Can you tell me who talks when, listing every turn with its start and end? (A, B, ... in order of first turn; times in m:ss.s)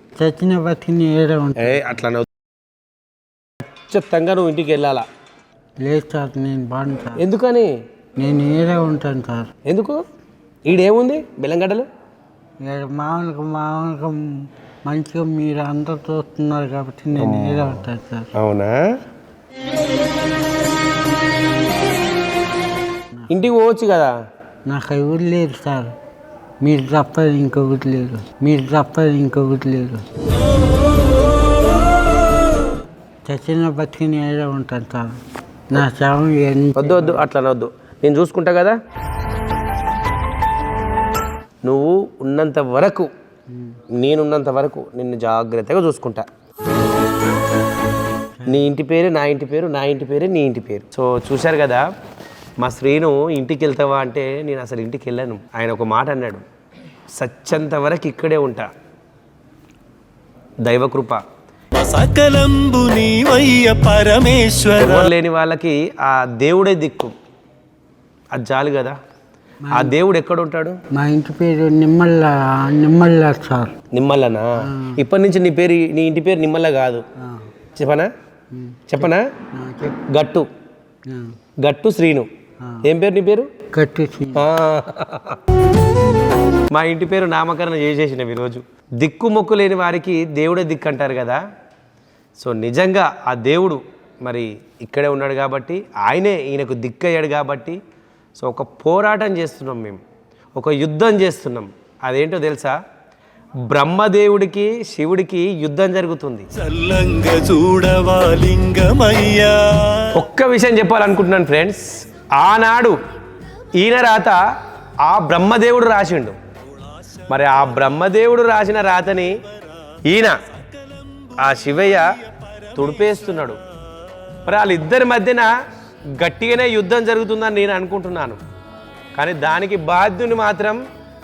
0:00.2-0:02.0 A
0:01.6-0:02.3 B
0:03.8-0:05.1 B
0:05.8-0:07.2 A
0:07.2-0:07.7 B
0:08.2-0:09.5 A
0:09.6-0:10.0 B
0:10.7-0:11.9 B
0:12.6-0:18.3 A
0:17.2-0:17.8 B
0:18.4-0:18.8 B
0:23.3-0:24.1 B
0:24.7-0:25.9 A
0:26.6-0:30.1 A
0:33.3-0:35.2 A
0:35.7-0:37.2 A
0:36.8-0:38.8 B
0:41.6-0:43.1 B
0:43.5-0:43.8 A
0:44.0-0:46.3 B
0:48.5-0:51.9 B
0:52.6-0:56.4 B
0:57.1-0:58.7 B
1:00.6-1:01.2 B
1:01.8-1:05.1 C
1:04.7-1:07.1 B
1:08.3-1:09.0 B
1:09.7-1:10.0 A
1:09.7-1:10.8 B
1:10.9-1:13.7 A
1:13.9-1:17.0 B
1:14.6-1:15.0 A
1:17.2-1:17.5 A
1:17.8-1:18.1 B
1:18.5-1:20.0 A
1:18.9-1:19.3 B
1:20.1-1:20.5 B
1:21.1-1:21.3 A
1:21.6-1:22.3 B
1:22.8-1:23.5 B
1:23.7-1:24.5 A
1:24.4-1:25.4 B
1:26.7-1:31.4 B
1:32.4-1:37.8 B
1:38.4-1:40.0 B
1:40.6-1:42.8 B
1:43.7-1:46.5 B
1:46.6-1:50.1 C
1:50.2-1:53.0 B
1:53.7-1:54.4 B
1:55.0-1:56.4 B
1:56.8-1:57.2 C
1:57.3-1:59.4 B
2:00.1-2:00.4 B
2:00.6-2:01.5 C
2:01.4-2:02.0 B
2:02.4-2:02.9 C
2:02.8-2:03.6 B
2:04.5-2:05.5 B
2:06.2-2:08.4 B
2:09.2-2:10.8 B